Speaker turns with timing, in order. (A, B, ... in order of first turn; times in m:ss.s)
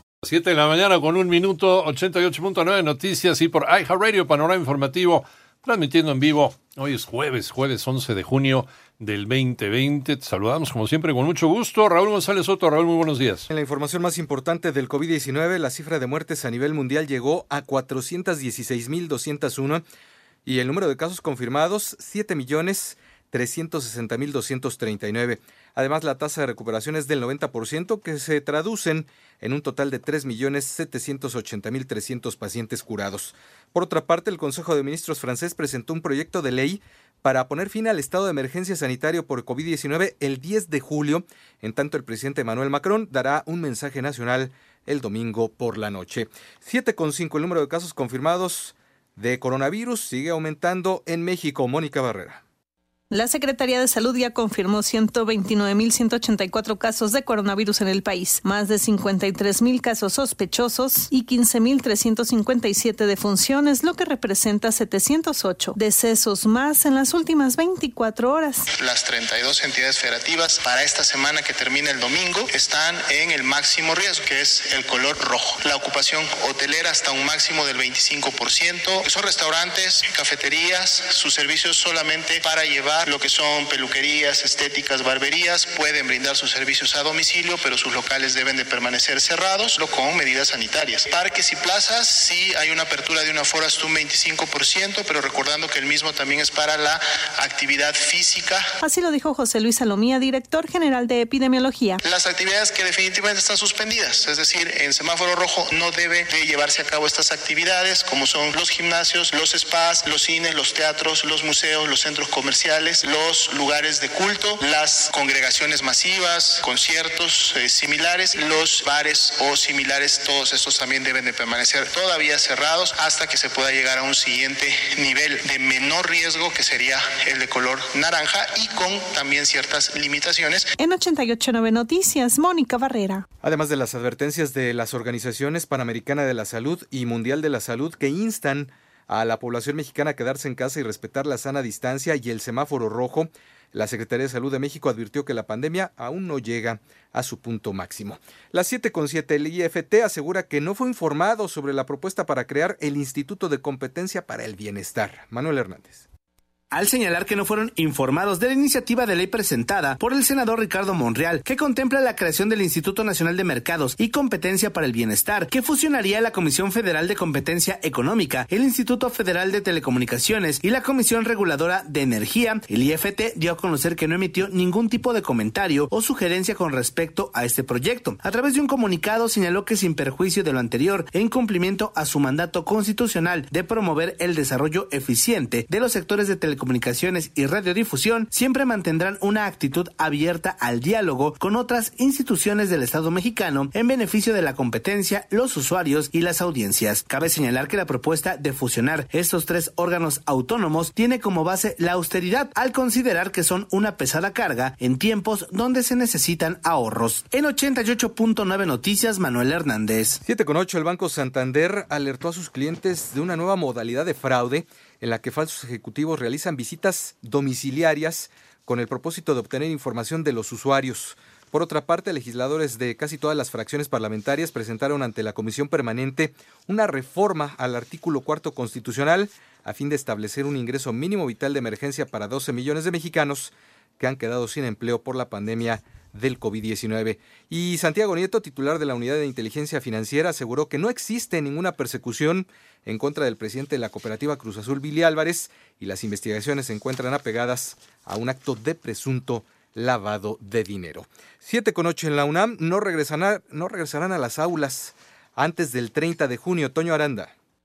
0:00.2-0:13.5 A
0:13.5-0:19.8 B
0:20.5-0:52.4 B
0:53.1-1:08.7 C
1:08.7-1:38.7 D
1:38.8-1:42.0 C
1:42.0-2:10.7 D
2:10.8-2:13.3 C
2:13.4-2:36.0 B
2:36.7-3:30.2 E
3:30.2-4:17.3 B